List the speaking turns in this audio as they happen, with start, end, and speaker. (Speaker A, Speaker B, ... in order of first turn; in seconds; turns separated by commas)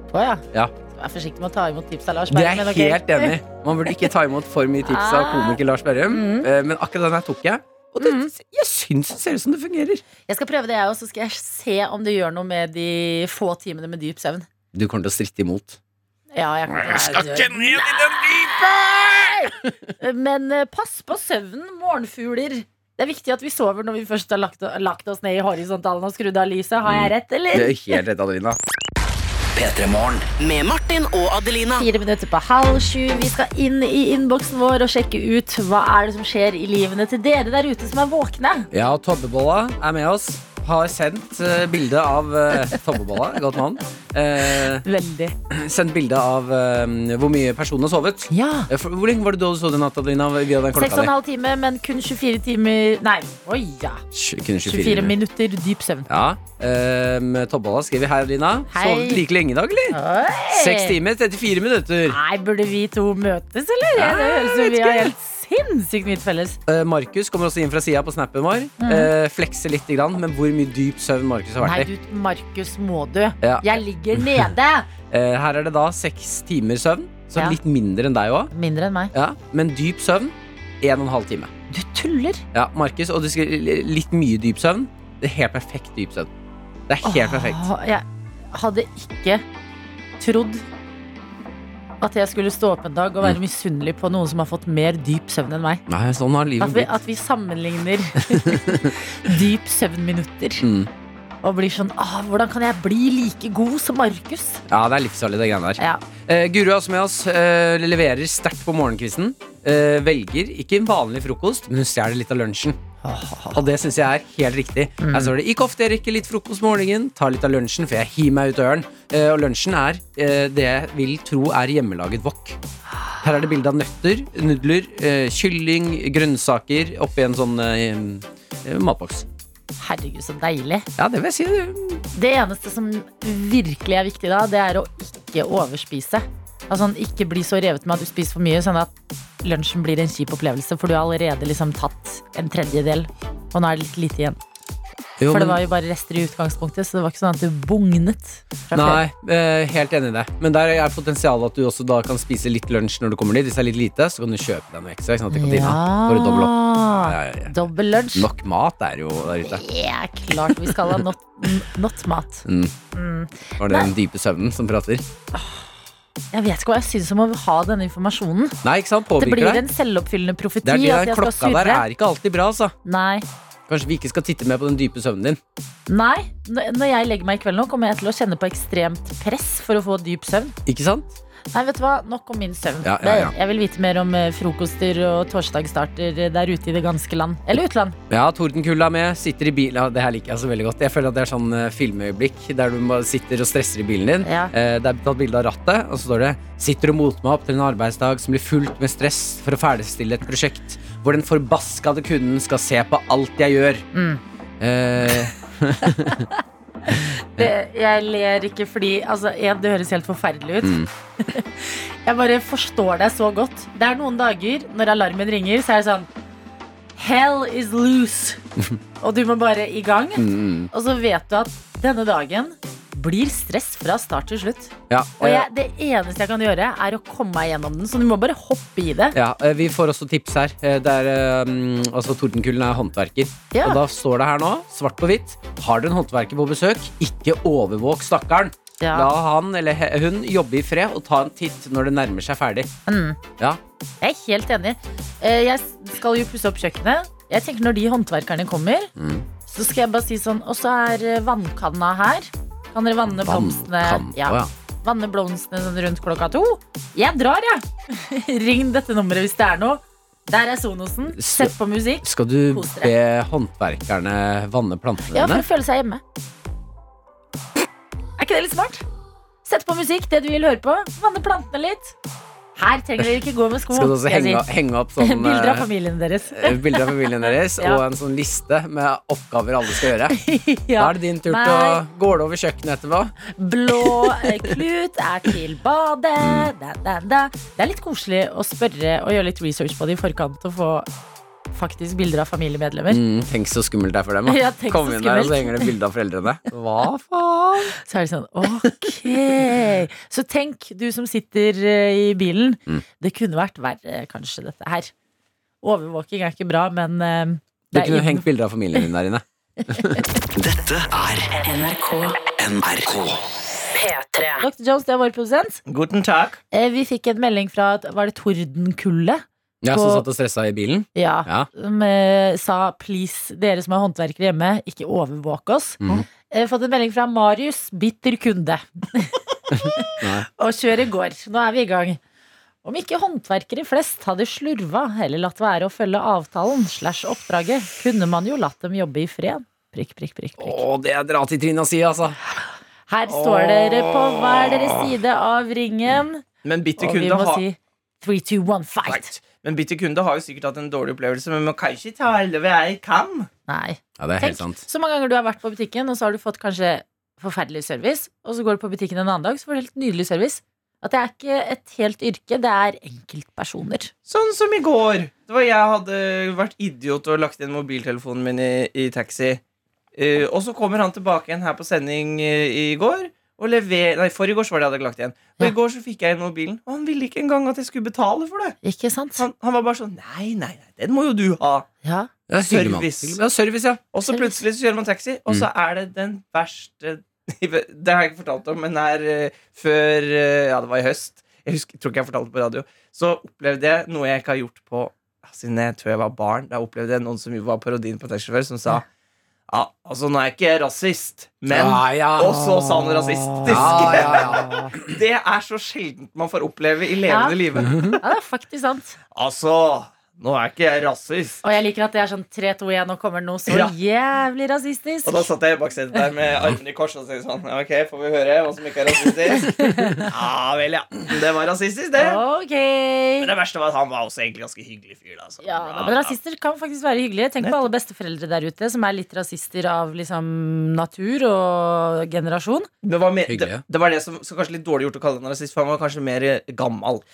Speaker A: 0.1-3.4, Speaker B: 2.3-10.0, Speaker A: 4.8-6.5, Speaker A: 8.0-8.3, Speaker A: 10.3-14.5, Speaker B: 14.7-15.8, Speaker A: 16.3-28.0, Speaker B: 16.7-19.8, Speaker B: 26.8-28.6, Speaker C: 29.6-30.3, Speaker D: 30.4-31.9, Speaker A: 31.8-38.7, Speaker B: 38.7-44.9, Speaker A: 42.5-42.8, Speaker A: 44.5-45.4, Speaker B: 45.5-51.1, Speaker A: 48.3-48.7, Speaker A: 50.7-54.0, Speaker B: 54.1-55.1, Speaker A: 54.6-56.1, Speaker B: 56.1-60.0, Speaker A: 58.7-59.2, Speaker A: 59.9-61.0, Speaker B: 60.5-62.2, Speaker A: 62.1-66.6, Speaker B: 63.9-65.1, Speaker B: 66.7-71.9, Speaker A: 68.8-69.1, Speaker A: 71.6-74.9, Speaker B: 73.4-74.4, Speaker B: 75.1-78.5, Speaker A: 78.5-79.1, Speaker B: 79.1-81.5, Speaker A: 81.7-82.4, Speaker B: 82.5-86.3, Speaker B: 86.9-87.7, Speaker A: 87.0-89.5, Speaker A: 90.2-90.7, Speaker A: 92.0-95.8, Speaker B: 95.9-96.9, Speaker A: 96.6-100.7, Speaker B: 98.3-99.0, Speaker B: 100.6-100.9, Speaker A: 101.4-104.6, Speaker B: 104.7-112.8, Speaker A: 113.0-113.6, Speaker B: 113.5-122.6, Speaker A: 115.0-115.3, Speaker B: 123.2-129.3, Speaker A: 129.8-130.9, Speaker B: 131.0-132.0, Speaker A: 132.1-138.9, Speaker A: 139.4-144.4, Speaker B: 145.2-145.6, Speaker A: 145.3-149.0, Speaker B: 148.7-157.6, Speaker A: 155.3-158.3, Speaker B: 158.1-159.6, Speaker A: 159.4-163.9, Speaker B: 160.3-161.0, Speaker B: 162.4-162.7, Speaker B: 163.6-165.1, Speaker A: 165.3-165.7, Speaker A: 166.3-168.6, Speaker B: 168.6-169.7, Speaker A: 169.2-171.8, Speaker B: 170.6-172.7, Speaker A: 172.8-173.2, Speaker B: 173.7-175.4, Speaker A: 175.9-180.6, Speaker B: 180.7-181.2, Speaker A: 181.5-188.0, Speaker B: 182.8-183.3, Speaker B: 188.1-203.8, Speaker A: 194.2-194.5, Speaker A: 203.9-204.2, Speaker B: 204.6-206.3, Speaker A: 206.0-216.1, Speaker B: 206.9-207.5, Speaker B: 210.6-210.9, Speaker A: 217.0-218.4, Speaker A: 219.0-229.2, Speaker B: 220.2-220.7, Speaker B: 224.9-225.5, Speaker B: 229.1-242.7, Speaker A: 233.5-233.8, Speaker A: 238.8-239.1, Speaker A: 242.9-243.2, Speaker A: 244.0-248.9, Speaker B: 249.0-249.3, Speaker A: 249.5-262.9, Speaker B: 253.1-254.5, Speaker B: 261.1-265.5, Speaker A: 265.1-266.0, Speaker A: 268.2-268.8, Speaker A: 269.4-271.9, Speaker A: 272.6-274.5, Speaker B: 273.7-275.7, Speaker A: 275.0-277.8, Speaker B: 276.3-280.2, Speaker A: 280.1-281.8, Speaker B: 280.8-283.1, Speaker A: 283.3-290.9, Speaker B: 283.8-284.5, Speaker B: 286.2-286.5, Speaker A: 291.5-293.0, Speaker B: 292.9-297.8, Speaker A: 294.3-295.7, Speaker A: 297.8-304.9, Speaker B: 298.5-299.5, Speaker A: 305.6-308.9, Speaker B: 307.7-310.1, Speaker A: 309.7-310.1, Speaker C: 310.4-311.5, Speaker D: 311.4-312.3, Speaker C: 312.4-313.2, Speaker D: 313.7-314.5, Speaker A: 314.4-315.6, Speaker E: 315.7-316.4, Speaker A: 316.5-320.1, Speaker B: 319.6-321.5, Speaker A: 320.9-329.2, Speaker B: 325.8-326.1, Speaker B: 329.5-330.3, Speaker A: 329.7-332.0, Speaker A: 332.6-340.6, Speaker B: 340.4-342.2, Speaker A: 342.9-346.2, Speaker B: 343.2-344.6, Speaker E: 346.4-347.4, Speaker A: 346.8-349.1, Speaker E: 348.9-353.3, Speaker A: 353.5-363.9, Speaker B: 354.0-354.6, Speaker E: 364.1-369.4, Speaker E: 370.0-378.6, Speaker A: 378.6-379.2, Speaker E: 379.2-381.7, Speaker A: 381.8-382.1, Speaker B: 382.3-383.8, Speaker E: 382.4-383.2, Speaker E: 383.9-398.8, Speaker E: 399.5-407.9, Speaker B: 401.5-402.4, Speaker A: 403.3-404.7, Speaker B: 403.4-404.9, Speaker A: 407.1-409.0, Speaker B: 407.7-408.0, Speaker E: 409.1-411.4, Speaker A: 411.4-415.3, Speaker E: 413.5-413.7, Speaker E: 415.1-422.2, Speaker A: 419.4-420.1, Speaker A: 422.0-423.3, Speaker E: 423.2-426.2, Speaker A: 425.4-432.7, Speaker E: 432.8-437.0, Speaker B: 433.3-433.6